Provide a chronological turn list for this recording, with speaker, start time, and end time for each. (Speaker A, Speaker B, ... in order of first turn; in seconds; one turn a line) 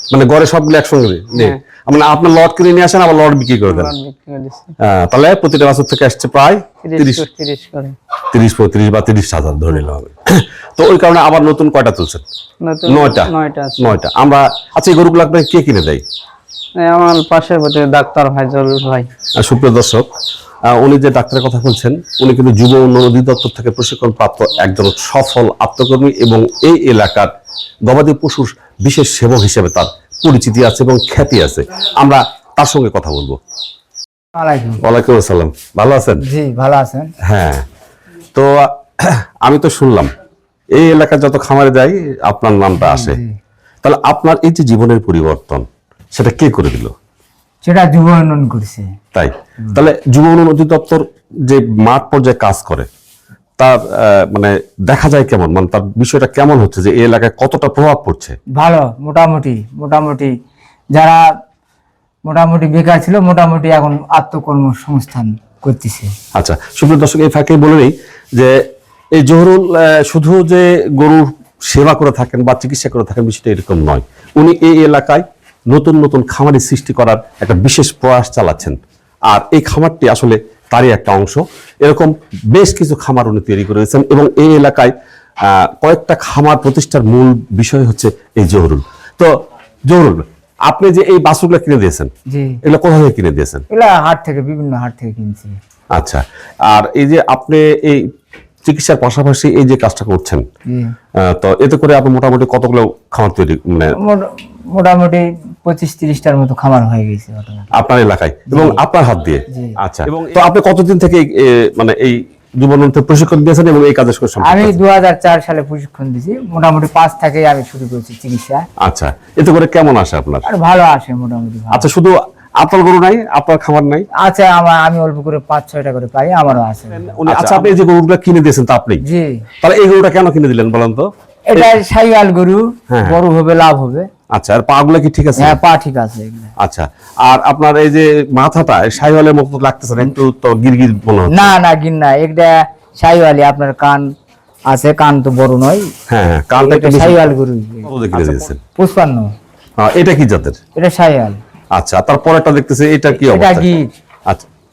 Speaker A: 0.1-4.0
Speaker B: 1.3-1.6
Speaker B: 3.7-4.7
Speaker A: 4.8-7.3
Speaker B: 6.8-8.0
Speaker A: 8.3-12.2
Speaker B: 12.7-14.0
Speaker A: 12.9-16.0
Speaker B: 16.8-19.1
Speaker A: 19.4-20.1
Speaker A: 20.7-27.3
Speaker A: 27.9-33.4
Speaker C: 34.4-34.8
Speaker A: 34.8-36.2
Speaker C: 36.2-37.1
Speaker A: 37.2-37.6
Speaker A: 38.3-40.1
Speaker A: 40.7-43.2
Speaker C: 42.8-43.4
Speaker A: 43.8-46.9
Speaker C: 47.6-48.9
Speaker A: 49.1-52.9
Speaker A: 53.6-58.4
Speaker C: 58.6-60.3
Speaker C: 61.0-61.2
Speaker C: 62.3-66.1
Speaker A: 66.3-68.6
Speaker A: 69.1-89.3
Speaker A: 89.9-92.1
Speaker C: 92.3-92.6
Speaker A: 92.6-93.7
Speaker C: 93.7-95.5
Speaker A: 96.0-98.1
Speaker A: 98.6-100.4
Speaker A: 101.2-104.0
Speaker C: 104.0-107.7
Speaker A: 107.8-114.8
Speaker C: 108.5-108.8
Speaker C: 114.4-118.6
Speaker A: 118.8-120.5
Speaker C: 120.5-121.9
Speaker A: 121.7-124.1
Speaker C: 124.2-127.5
Speaker A: 127.2-129.0
Speaker C: 129.1-129.4
Speaker A: 129.6-131.7
Speaker C: 131.5-134.1
Speaker A: 132.9-133.2
Speaker A: 134.3-135.6
Speaker C: 135.4-136.5
Speaker A: 136.6-141.5
Speaker C: 141.3-144.1
Speaker C: 144.7-145.9
Speaker A: 146.1-147.2
Speaker C: 146.6-149.3
Speaker A: 147.9-148.6
Speaker A: 149.8-150.6
Speaker C: 150.8-151.4
Speaker A: 151.7-153.7
Speaker C: 153.1-153.9